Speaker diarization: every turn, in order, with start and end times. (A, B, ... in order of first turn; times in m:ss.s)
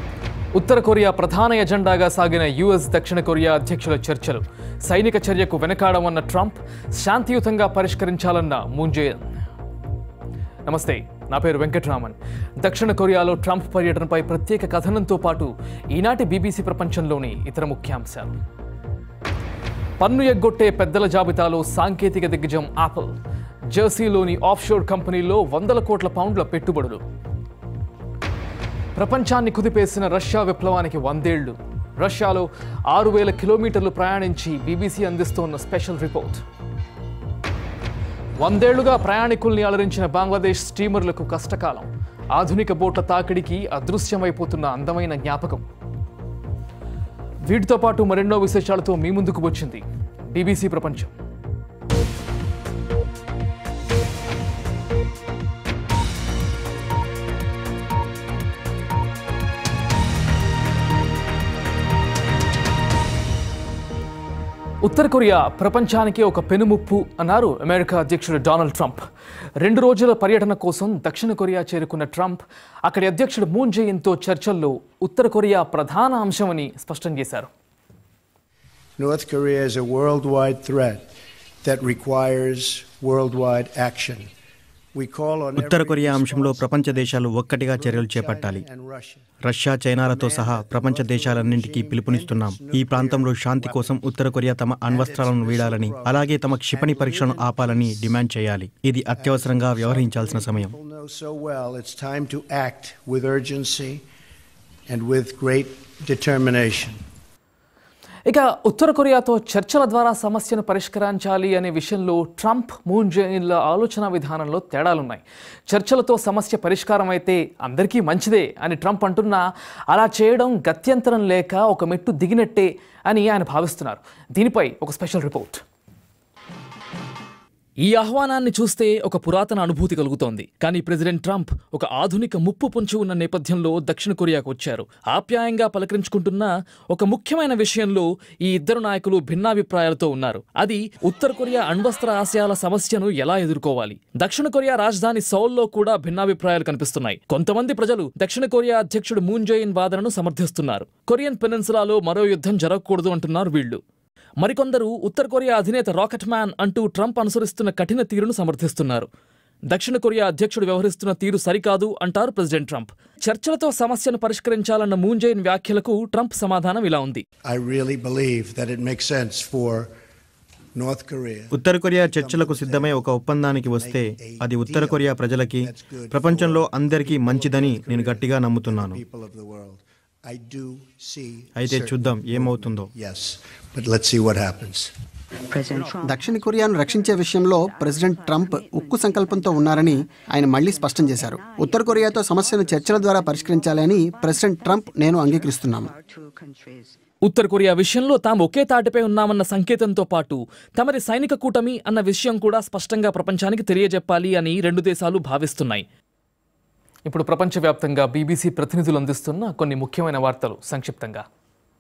0:00.6-0:09.3 A
0:10.7-0:18.4 A
0:20.0-0:23.2 A
0:23.7-0:27.0 A
0:29.0-0:36.4 A
0:38.4-0:45.6 A
0:47.5-0:51.1 A
1:04.8-1:09.0 A
1:09.6-1:17.5 A
1:19.0-1:21.1 B
1:21.6-1:24.3 B
1:24.9-1:27.2 B
1:25.6-1:28.7 C
1:27.7-1:29.2 B
1:29.4-1:40.8 C
1:30.0-1:34.0 B
1:34.8-1:38.2 B
1:39.1-1:44.0 B
1:44.9-1:47.0 B
1:48.3-2:05.6 A
2:07.8-2:33.8 A
2:34.4-2:39.1 A
2:39.7-2:47.2 A
2:47.5-2:49.9 B
2:50.8-3:04.9 B
2:51.5-2:59.0 C
3:01.6-3:02.9 C
3:06.0-3:15.9 D
3:17.3-3:25.8 A
3:27.1-3:31.2 A